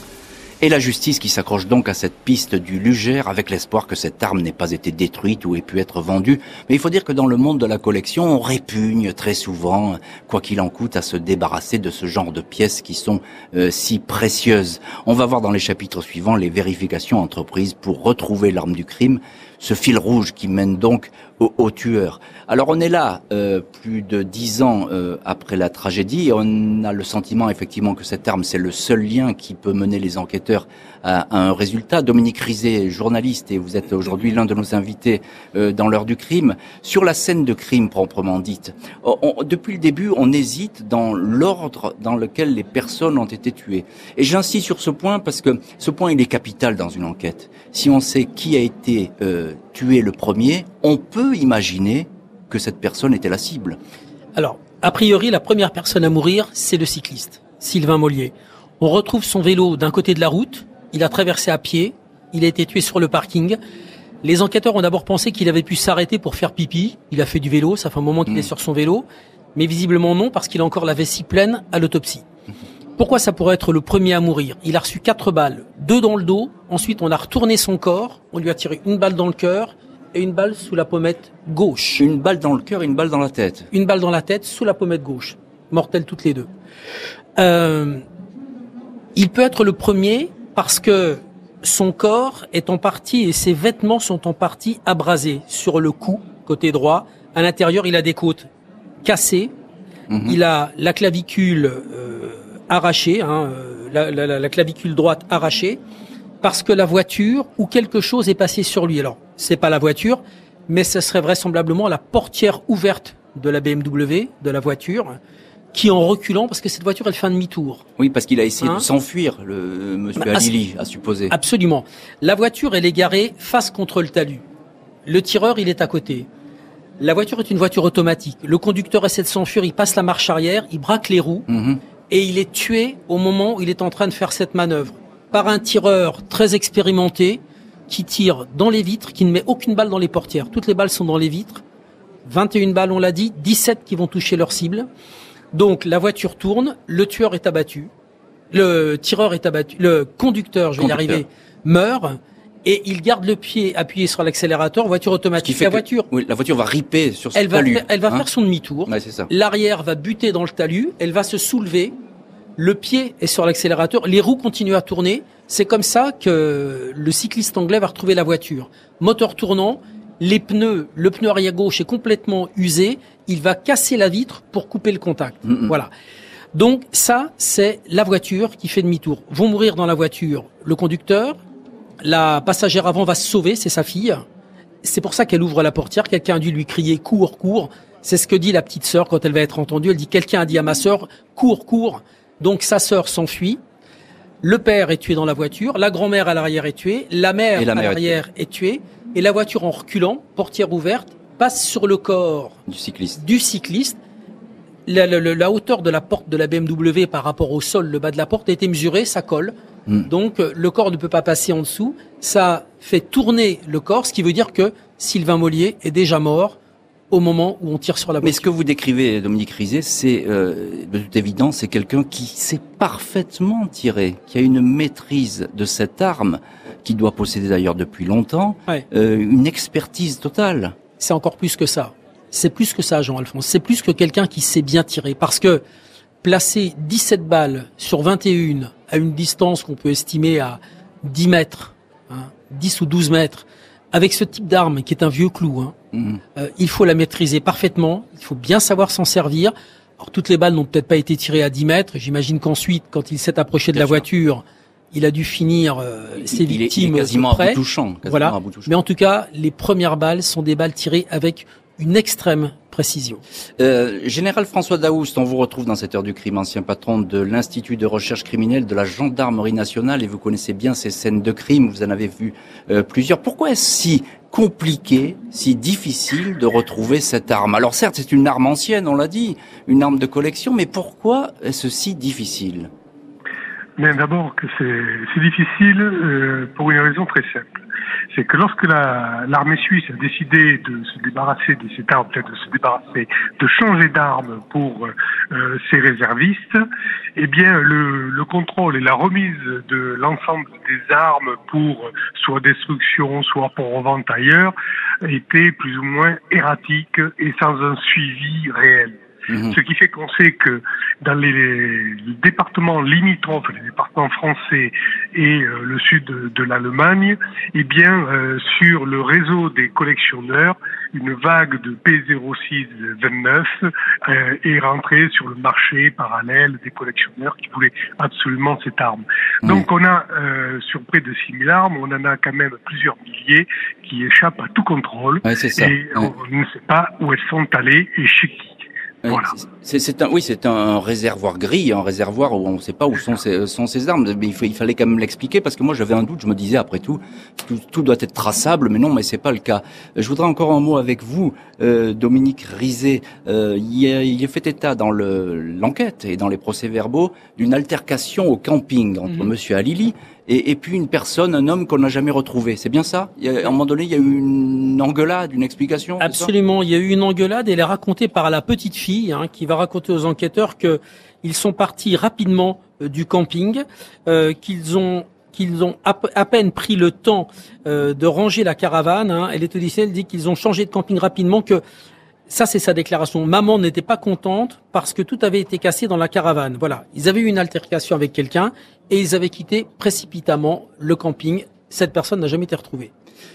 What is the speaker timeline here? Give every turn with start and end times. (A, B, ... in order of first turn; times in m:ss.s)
0:00.6-0:53.8 A
0:54.4-1:03.6 B
1:04.2-1:09.0 B
1:09.6-1:12.2 B
1:13.0-1:22.0 B
1:22.0-1:23.7 A
1:23.7-1:26.5 B
1:27.4-1:28.0 B
1:29.2-1:38.5 B
1:39.0-1:39.5 B
1:40.1-1:40.4 A
1:40.2-1:45.8 B
1:46.4-1:55.2 B
1:55.7-1:57.8 B
1:58.0-2:01.3 A
2:00.2-2:00.5 B
2:01.3-2:04.4 B
2:05.1-2:06.3 B
2:07.0-2:11.5 B
2:11.5-2:11.8 A
2:12.1-2:21.6 B
2:22.2-2:24.9 B
2:25.5-2:27.9 B
2:28.5-2:36.1 B
2:30.8-2:31.2 A
2:35.4-2:38.3 A
2:37.3-2:42.0 B
2:38.9-2:39.3 A
2:42.6-2:55.9 B
2:55.5-2:55.7 A
2:56.5-3:01.4 B
3:02.0-3:04.2 B
3:04.8-3:13.6 B
3:14.4-3:22.6 B
3:17.6-3:18.2 A
3:22.7-3:23.2 A
3:23.2-3:24.0 B
3:24.9-3:29.5 B
3:30.1-3:36.6 B
3:37.1-3:38.5 B
3:38.2-3:50.8 A
3:51.0-3:55.6 B
3:56.2-4:05.7 B
4:05.9-4:06.2 A
4:06.4-4:23.2 B
4:13.7-4:14.0 A
4:16.2-4:18.7 A
4:23.6-4:42.7 A
4:43.8-4:47.5 C
4:48.1-4:56.6 C
4:57.2-5:09.0 C
5:09.3-5:09.6 A
5:09.5-5:38.5 C
5:35.2-5:36.1 A
5:39.0-6:06.3 A
5:39.1-5:39.3 C
6:06.0-6:21.6 B
6:22.3-6:32.9 B